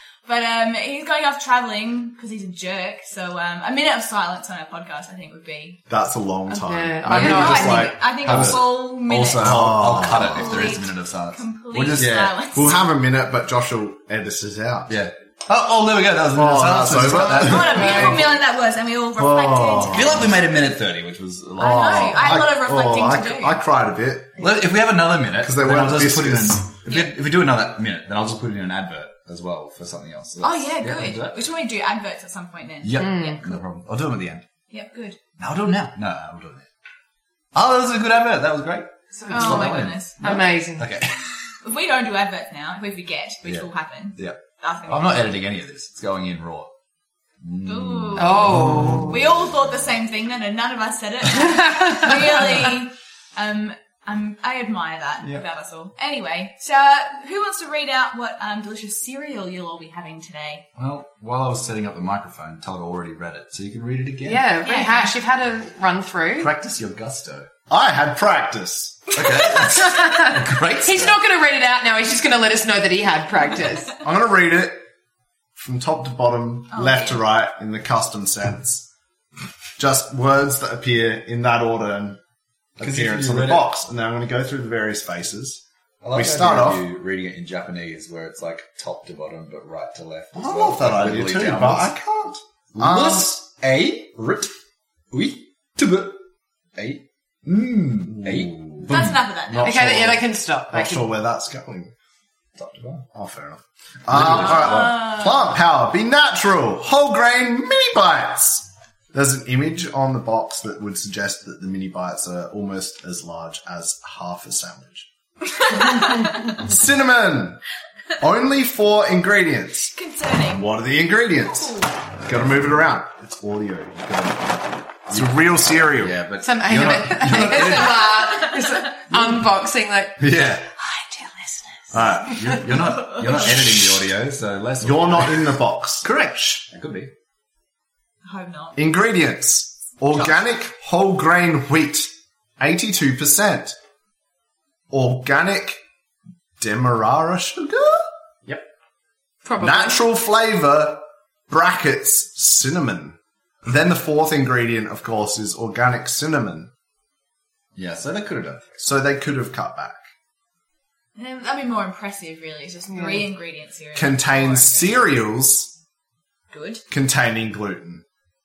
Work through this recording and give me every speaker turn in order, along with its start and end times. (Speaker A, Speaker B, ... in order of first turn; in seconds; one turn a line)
Speaker A: 0.2-5.8
Speaker B: 5.9-8.6
Speaker A: 6.5-12.8
Speaker C: 6.6-8.0
Speaker D: 8.2-12.2
Speaker B: 9.4-10.5
Speaker B: 11.9-15.0
Speaker D: 14.9-18.4
Speaker B: 16.3-18.3
Speaker A: 17.2-20.3
Speaker B: 19.1-20.3
Speaker D: 19.9-22.3
Speaker A: 21.6-23.6
Speaker B: 21.6-24.4
Speaker D: 24.4-31.4
Speaker B: 25.4-26.7
Speaker A: 26.9-27.1
Speaker A: 30.4-33.4
Speaker D: 32.8-34.4
Speaker C: 32.9-33.4
Speaker A: 34.7-35.2
Speaker D: 35.4-36.6
Speaker D: 37.5-41.4
Speaker C: 39.2-40.9
Speaker A: 39.3-40.2
Speaker A: 41.6-45.3
Speaker D: 43.5-46.7
Speaker D: 47.4-49.3
Speaker A: 47.6-60.6
Speaker C: 48.1-49.2
Speaker D: 60.7-64.4
Speaker C: 64.2-66.5
Speaker A: 64.6-65.1
Speaker D: 66.4-67.5
Speaker B: 67.7-69.2
Speaker D: 69.1-71.2
Speaker C: 69.5-74.0
Speaker B: 74.0-74.8
Speaker B: 75.5-78.9
Speaker A: 76.7-77.2
Speaker B: 79.8-82.2
Speaker B: 82.8-85.6
Speaker D: 82.8-83.6
Speaker D: 86.0-91.9
Speaker B: 86.1-86.8
Speaker B: 90.3-93.3
Speaker D: 92.8-94.5
Speaker D: 95.1-96.2
Speaker D: 96.8-99.2
Speaker B: 98.1-101.9
Speaker A: 98.8-99.8
Speaker C: 99.6-101.1
Speaker D: 102.6-103.0
Speaker B: 103.1-115.1
Speaker D: 104.1-104.9
Speaker A: 104.3-105.5
Speaker A: 115.7-116.5
Speaker B: 115.7-117.6
Speaker B: 118.2-119.9
Speaker A: 119.9-120.7
Speaker B: 120.5-126.2
Speaker A: 121.4-122.0
Speaker D: 125.8-128.2
Speaker C: 126.4-130.2
Speaker A: 128.2-128.8
Speaker D: 130.2-130.7
Speaker C: 130.8-132.0
Speaker B: 131.9-132.6
Speaker D: 131.9-137.1
Speaker A: 132.8-133.5
Speaker B: 134.8-136.1
Speaker A: 138.2-138.8
Speaker B: 138.8-143.8
Speaker B: 144.9-145.8
Speaker B: 146.6-148.1
Speaker C: 149.4-150.0
Speaker B: 149.6-156.7
Speaker D: 157.7-158.8
Speaker B: 158.8-160.0
Speaker A: 161.2-165.0
Speaker C: 162.9-163.2
Speaker B: 163.9-165.7
Speaker A: 166.5-166.8
Speaker B: 166.9-168.0